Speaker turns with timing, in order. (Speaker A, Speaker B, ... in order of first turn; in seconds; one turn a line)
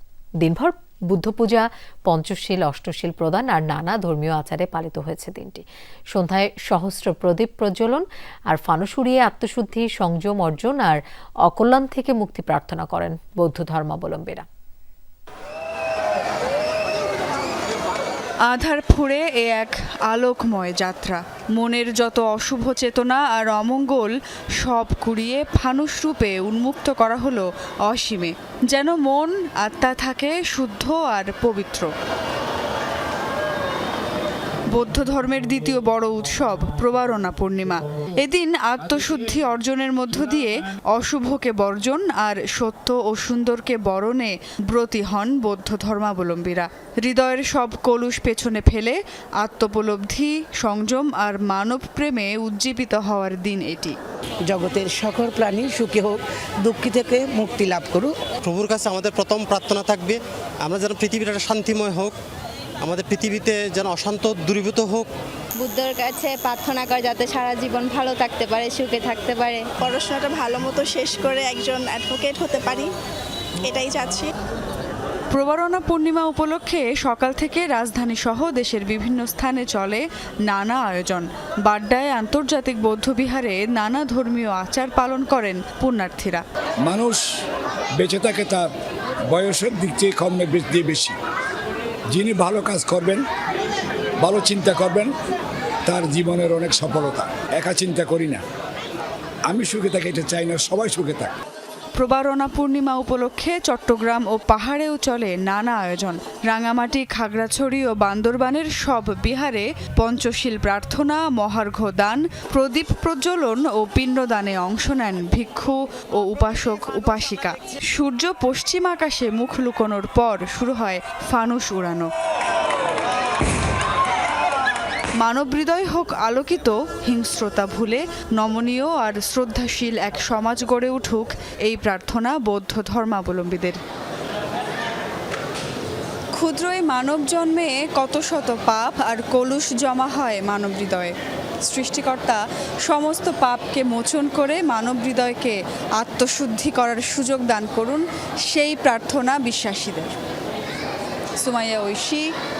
Speaker A: 0.4-14.4
Speaker B: 18.5-31.9
Speaker B: 34.7-54.0
Speaker C: 54.4-58.2
Speaker D: 58.4-62.2
Speaker D: 62.8-65.1
Speaker E: 65.6-69.7
Speaker F: 69.8-72.9
Speaker F: 73.6-74.3
Speaker B: 75.3-86.4
Speaker G: 86.8-87.2
Speaker G: 88.0-88.7
Speaker G: 89.3-91.1
Speaker G: 92.1-93.2
Speaker G: 94.2-95.1
Speaker G: 95.8-98.4
Speaker G: 99.5-101.3
Speaker B: 102.0-122.1
Speaker B: 125.2-133.8
Speaker B: 136.3-150.1
Speaker B: 151.4-152.3